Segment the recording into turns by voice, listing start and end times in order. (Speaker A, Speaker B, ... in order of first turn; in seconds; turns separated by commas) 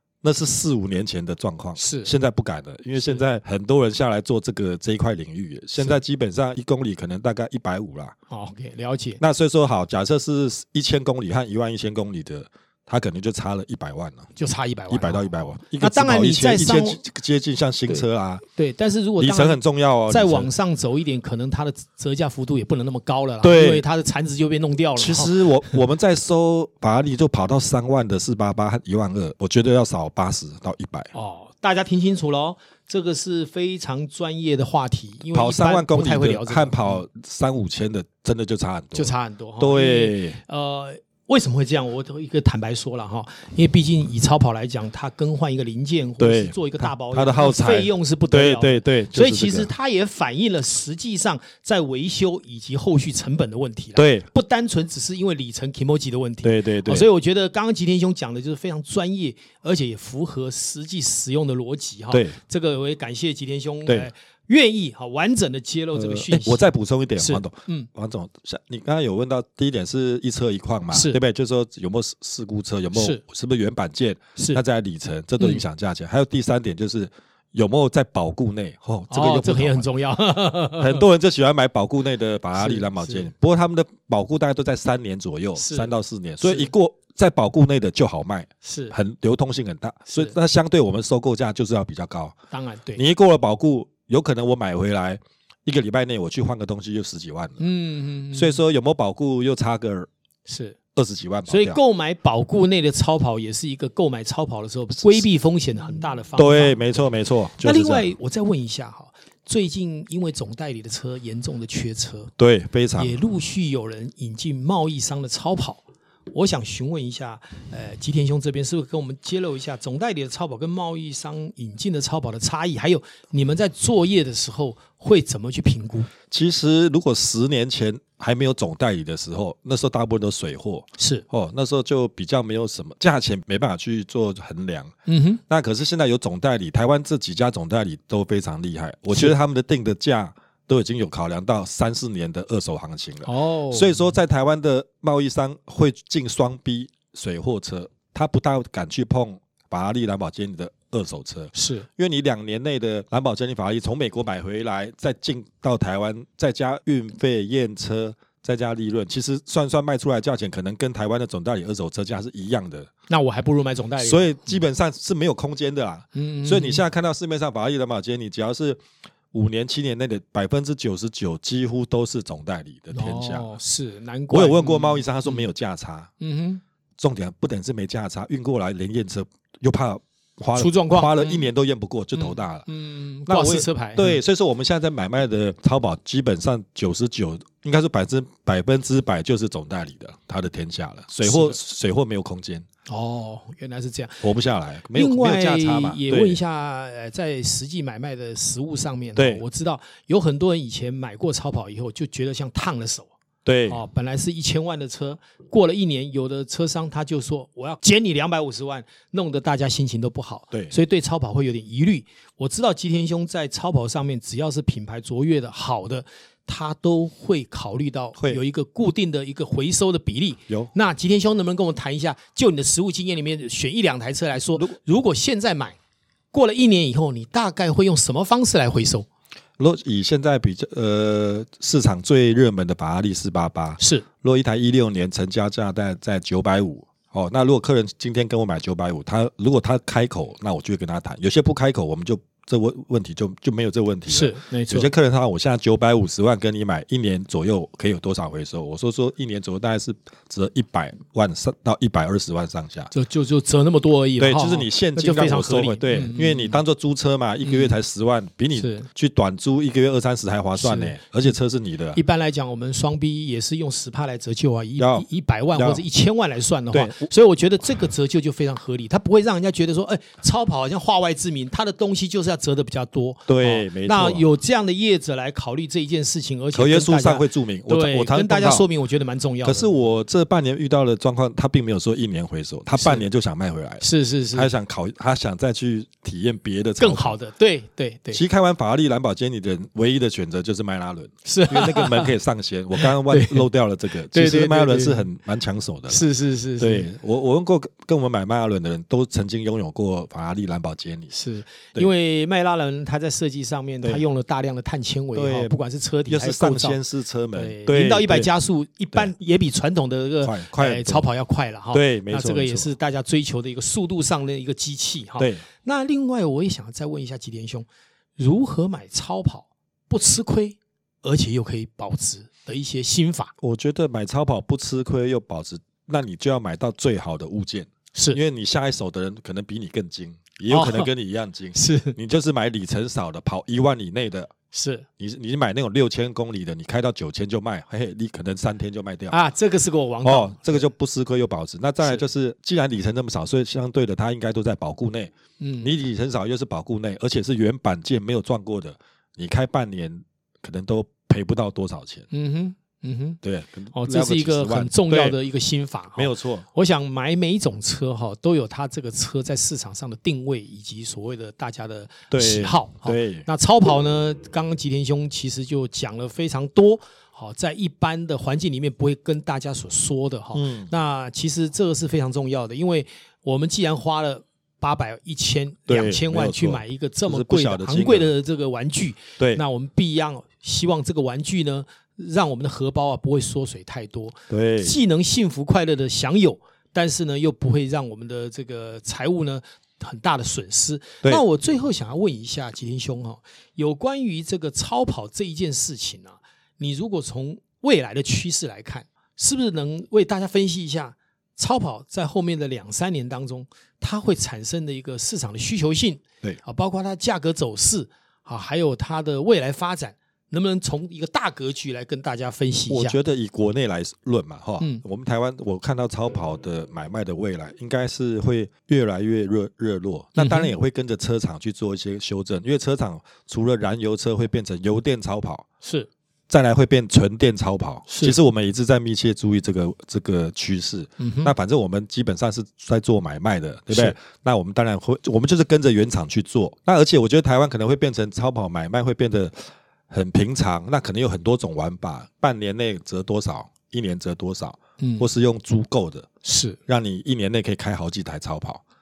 Speaker A: 0.2-8.1, Speaker B: 1.8-2.1, Speaker B: 3.0-3.2, Speaker B: 8.3-9.2, Speaker A: 9.2-14.3, Speaker B: 14.4-15.2, Speaker A: 14.9-18.4, Speaker B: 15.8-17.0, Speaker B: 18.6-25.8, Speaker A: 19.2-20.5, Speaker A: 23.4-23.8, Speaker A: 25.0-31.1, Speaker B: 31.1-37.0, Speaker A: 35.3-40.4, Speaker B: 38.9-67.9, Speaker A: 46.2-49.7, Speaker A: 54.0-54.3, Speaker A: 56.4-57.1, Speaker A: 62.1-62.4, Speaker A: 63.9-64.1, Speaker A: 65.9-79.9, Speaker B: 70.9-71.2, Speaker B: 72.9-73.2, Speaker B: 74.4-74.6, Speaker B: 75.4-75.7, Speaker B: 79.1-81.0, Speaker A: 80.8-92.3, Speaker B: 82.5-83.3, Speaker B: 85.6-86.7, Speaker B: 88.6-89.0, Speaker B: 90.1-90.3, Speaker B: 92.5-93.0, Speaker A: 93.0-97.7, Speaker B: 97.6-98.6, Speaker A: 98.3-100.1, Speaker B: 100.5-100.8, Speaker A: 101.0-101.8, Speaker B: 101.5-106.8, Speaker A: 106.4-108.1, Speaker B: 107.6-112.3, Speaker A: 112.4-113.2, Speaker B: 113.0-126.1, Speaker A: 126.3-134.9, Speaker B: 131.0-131.2, Speaker B: 135.1-135.4, Speaker A: 135.5-162.9, Speaker B: 143.2-144.1, Speaker B: 151.5-151.9, Speaker B: 163.1-164.6, Speaker A: 164.0-168.8, Speaker B: 166.1-166.8, Speaker A: 169.3-173.5, Speaker B: 172.9-175.5, Speaker A: 174.3-176.1, Speaker B: 176.2-176.6, Speaker A: 177.0-182.7, Speaker B: 180.6-181.5, Speaker B: 182.1-184.2, Speaker A: 183.3-192.6, Speaker B: 191.2-191.6, Speaker B: 192.9-194.3, Speaker A: 194.2-196.4, Speaker B: 194.9-203.1, Speaker A: 199.2-199.4, Speaker A: 203.4-203.8, Speaker B: 203.7-225.8, Speaker A: 218.2-218.4, Speaker B: 226.3-229.1, Speaker A: 229.6-252.9, Speaker B: 233.8-234.1, Speaker B: 244.1-244.9, Speaker B: 252.9-256.6, Speaker A: 254.2-262.0, Speaker B: 257.4-257.8, Speaker B: 258.6-258.9, Speaker B: 260.6-261.0, Speaker B: 261.9-279.7, Speaker A: 264.8-265.8, Speaker A: 266.7-267.1, Speaker A: 273.3-274.3, Speaker A: 276.5-278.7, Speaker A: 279.4-287.1, Speaker B: 282.8-283.1, Speaker B: 283.8-284.5, Speaker B: 286.8-288.2, Speaker A: 288.1-296.1, Speaker B: 291.2-292.1, Speaker B: 292.8-293.5, Speaker B: 294.1-295.1, Speaker B: 295.9-296.9, Speaker A: 296.6-301.1, Speaker B: 301.1-306.8, Speaker A: 305.1-305.6, Speaker A: 306.1-308.3, Speaker B: 307.3-323.3, Speaker A: 310.2-311.1, Speaker A: 311.7-312.7, Speaker A: 315.2-315.4, Speaker A: 323.4-334.3, Speaker B: 327.9-328.2, Speaker B: 330.5-330.9, Speaker B: 331.6-332.0, Speaker B: 334.5-334.9, Speaker A: 335.0-339.2, Speaker B: 339.1-340.6, Speaker A: 340.0-352.1, Speaker B: 345.4-345.7, Speaker B: 352.1-353.2, Speaker A: 353.2-355.2, Speaker B: 353.7-413.0, Speaker A: 356.0-356.5, Speaker A: 362.1-363.3, Speaker A: 370.3-370.7, Speaker A: 375.7-378.1, Speaker A: 384.3-384.8, Speaker A: 412.7-425.5, Speaker B: 420.1-420.5, Speaker B: 425.6-425.9, Speaker A: 426.3-446.1, Speaker B: 427.9-428.1, Speaker B: 431.0-431.3, Speaker B: 433.7-434.0, Speaker B: 444.8-445.1, Speaker B: 446.2-446.6, Speaker A: 446.7-448.6